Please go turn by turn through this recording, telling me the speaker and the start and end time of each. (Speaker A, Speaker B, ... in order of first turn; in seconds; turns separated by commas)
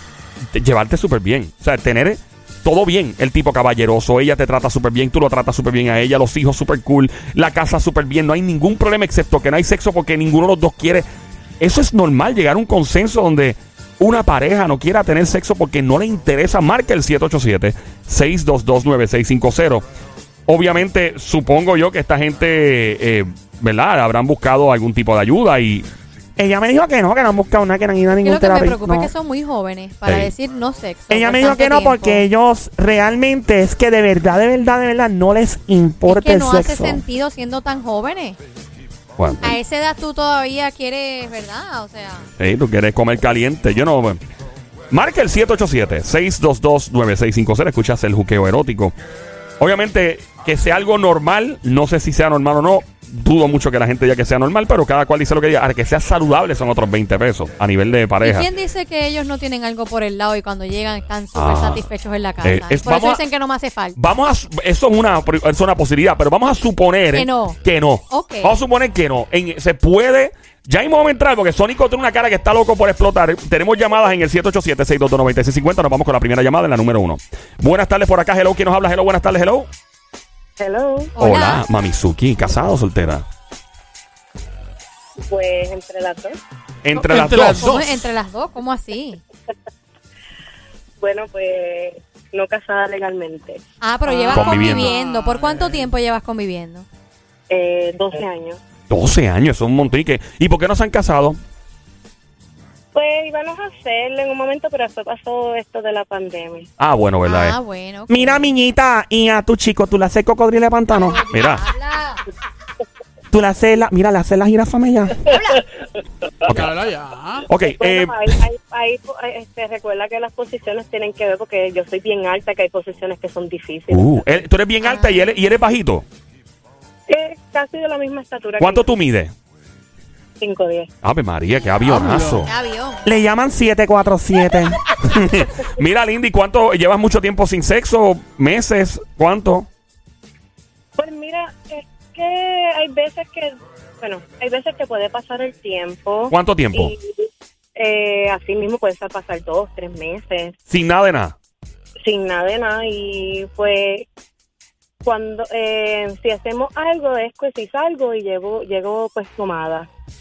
Speaker A: 0.5-11.1, Speaker A: 11.6-19.8, Speaker A: 20.5-25.9, Speaker B: 26.4-29.1, Speaker C: 28.2-32.2, Speaker A: 30.1-30.3, Speaker B: 31.1-37.0, Speaker C: 36.1-38.4, Speaker A: 39.2-39.6, Speaker C: 39.4-42.3, Speaker A: 42.4-44.2, Speaker A: 44.9-48.9, Speaker A: 49.6-58.5, Speaker C: 58.2-64.0, Speaker A: 61.4-61.8, Speaker A: 62.4-63.2, Speaker A: 64.0-79.7, Speaker C: 67.1-67.6, Speaker C: 68.1-68.5, Speaker D: 80.6-81.1, Speaker C: 81.2-81.6, Speaker A: 81.2-83.2, Speaker D: 85.2-86.4, Speaker A: 86.8-87.7, Speaker E: 87.0-88.0, Speaker C: 87.3-89.2, Speaker D: 91.0-93.6, Speaker C: 93.8-96.8, Speaker E: 94.1-95.9, Speaker A: 94.3-94.9, Speaker D: 97.5-98.6, Speaker A: 98.9-101.4, Speaker D: 102.9-106.7, Speaker A: 106.8-107.6, Speaker C: 107.2-108.5, Speaker B: 108.1-111.2, Speaker C: 110.9-112.2, Speaker A: 111.3-111.6, Speaker B: 113.3-115.2, Speaker A: 116.4-116.8, Speaker E: 116.5-117.5, Speaker A: 117.5-118.4, Speaker D: 117.7-124.3, Speaker A: 123.9-126.0, Speaker C: 124.8-125.3, Speaker D: 127.1-128.9, Speaker A: 128.6-129.3, Speaker D: 130.4-130.9, Speaker A: 131.0-132.5, Speaker E: 131.8-132.4, Speaker C: 132.5-133.0, Speaker B: 133.0-135.4, Speaker A: 135.1-139.7, Speaker D: 141.0-150.5, Speaker A: 146.3-146.9, Speaker A: 150.7-151.3, Speaker D: 152.0-154.1, Speaker D: 155.0-159.9